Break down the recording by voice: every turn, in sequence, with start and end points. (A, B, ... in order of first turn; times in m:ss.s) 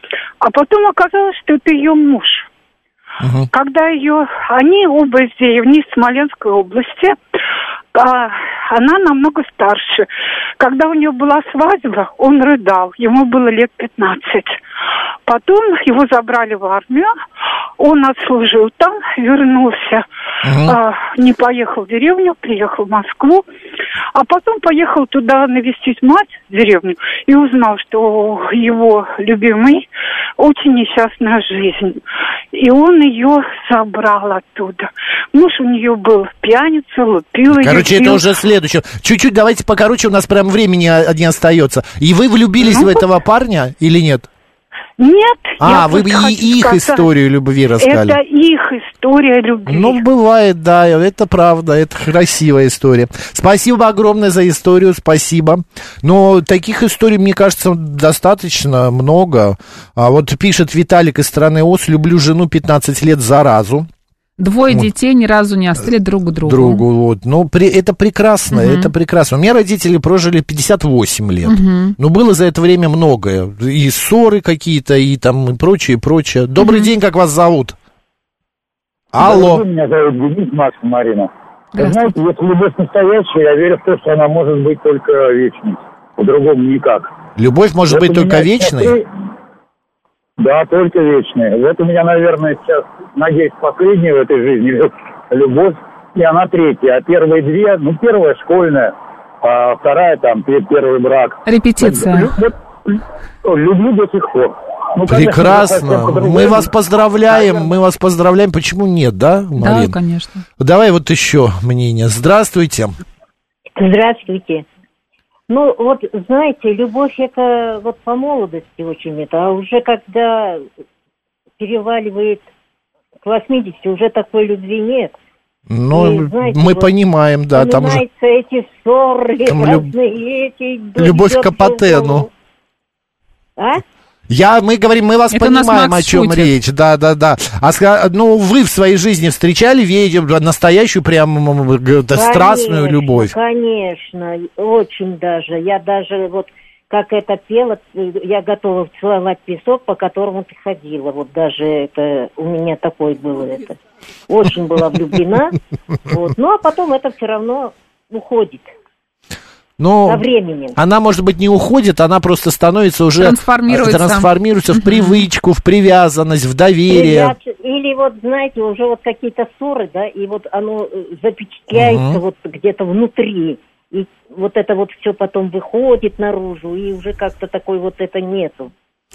0:00.4-0:02.5 A
0:03.2-0:03.5 B
0:03.5-0:07.2 A
0:07.9-0:10.1 A
0:10.6-0:14.6 A
0:15.2-0:17.1 A
0:17.8-0:20.0 A
0:20.4-0:20.8 B
0:20.6-0:23.4 A
0:24.1-0:29.9 A
0:30.4-0:32.0 A
0:32.5-0:38.2 A
0:37.5-0:44.3 B
0:42.6-0:43.0 A
0:45.0-0:47.1 A
0:45.6-0:48.2 B
0:47.8-0:50.0 A
0:49.6-1:03.9 B
1:04.4-1:06.8 C
1:06.4-1:17.8 B
1:08.5-1:08.9 C
1:11.4-1:12.0 C
1:16.6-1:16.9 C
1:19.1-1:19.6 B
1:19.2-1:27.1 D
1:21.7-1:22.1 C
1:27.4-1:29.0 B
1:27.9-1:29.0 D
1:30.4-1:46.7 D
1:41.4-1:42.3 C
1:45.0-1:50.0 B
1:47.3-1:47.6 D
1:49.6-1:50.4 C
1:50.6-1:52.9 B
1:53.7-1:54.6 E
1:55.5-2:00.6 E
2:01.6-2:02.4 E
2:03.2-2:05.1 E
2:05.7-2:08.0 B
2:05.9-2:06.9 E
2:07.5-2:12.3 E
2:09.5-2:09.9 B
2:11.0-2:12.2 B
2:13.6-2:13.8 E
2:14.3-2:23.3 B
2:15.3-2:16.5 C
2:22.1-2:35.6 E
2:36.1-2:38.7 E
2:39.8-2:47.3 B
2:40.1-2:40.8 E
2:43.2-2:45.2 C
2:46.9-2:58.7 E
2:51.7-2:52.2 B